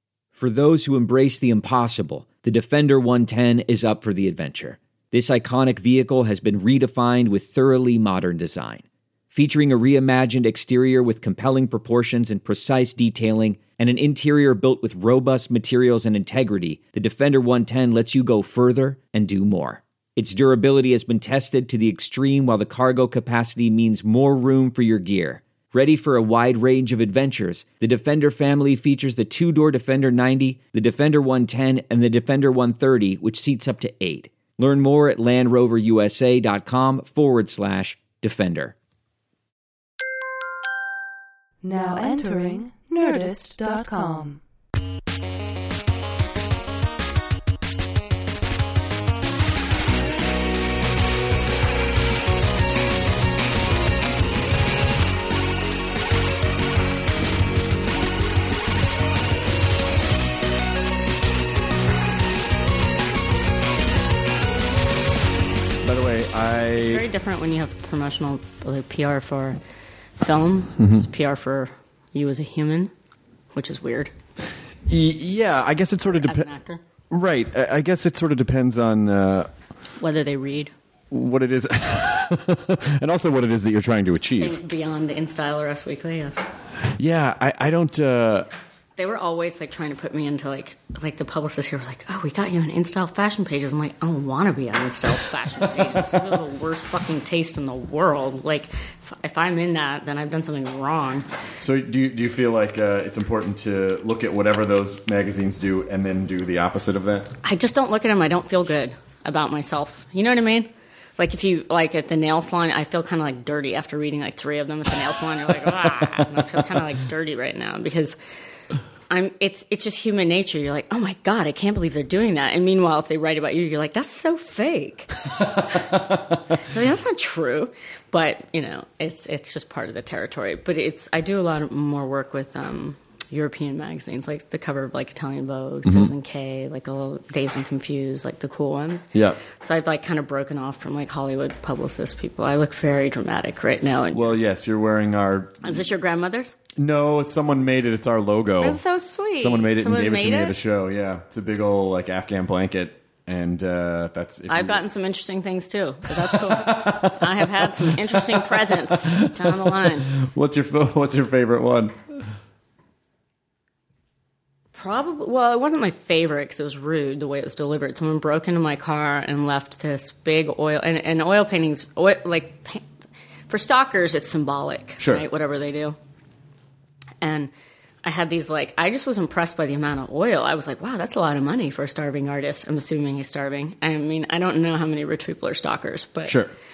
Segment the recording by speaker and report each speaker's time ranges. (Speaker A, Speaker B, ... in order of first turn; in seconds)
Speaker A: 0.3-38.7
Speaker B: 41.6-44.4
Speaker C: 65.8-67.0, 70.8-71.0, 74.8-76.5, 77.1-79.5, 81.1-84.6, 86.9-88.5, 95.7-96.2, 101.6-107.3, 135.8-136.1, 139.1-139.4, 144.1-145.8, 146.8-148.8, 149.4-154.8, 156.1-162.3, 175.0-175.2, 186.2-186.5
Speaker D: 66.7-69.6, 70.2-72.9, 73.5-74.1, 76.0-76.8, 80.0-80.7, 84.4-86.4, 89.0-101.2, 107.4-118.2, 119.1-125.9, 126.5-144.3, 145.6-146.5, 148.6-150.6, 154.5-160.1, 164.7-172.8, 173.5-175.9, 177.2-177.5, 178.0-186.3